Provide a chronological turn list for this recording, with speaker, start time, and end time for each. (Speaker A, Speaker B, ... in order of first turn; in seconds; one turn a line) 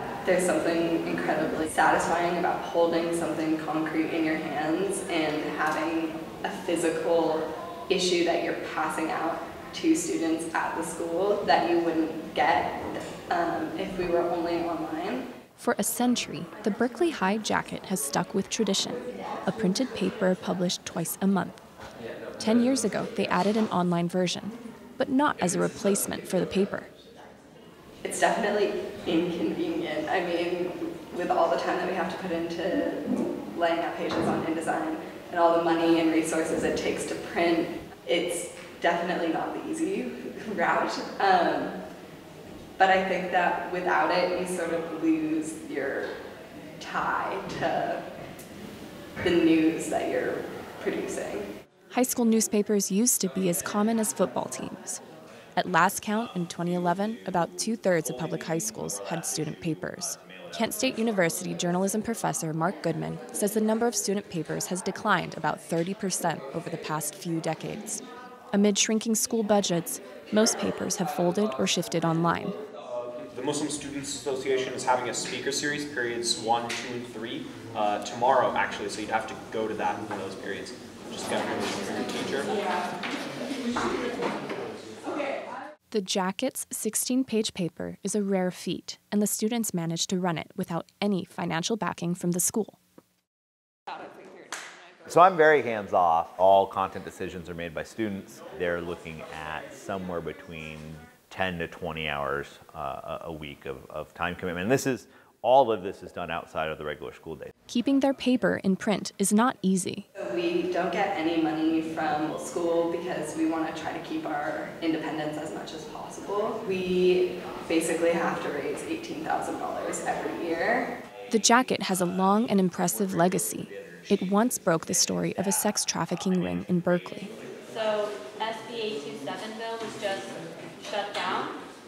Speaker A: 0.2-15.2
Speaker B: 15.6-21.6
Speaker B: 22.4-26.9
Speaker A: 28.0-41.8
Speaker A: 42.8-46.1
Speaker A: 46.8-48.0
Speaker A: 49.2-51.5
Speaker B: 51.9-55.0
Speaker B: 55.5-68.0
Speaker B: 68.5-72.5
Speaker C: 73.2-82.6
Speaker A: 82.5-82.9
Speaker B: 85.9-92.8
Speaker A: 93.9-95.0
Speaker D: 95.0-107.5
Speaker B: 107.7-110.1
Speaker A: 110.2-120.9
Speaker B: 121.3-127.3
Speaker E: 127.7-131.6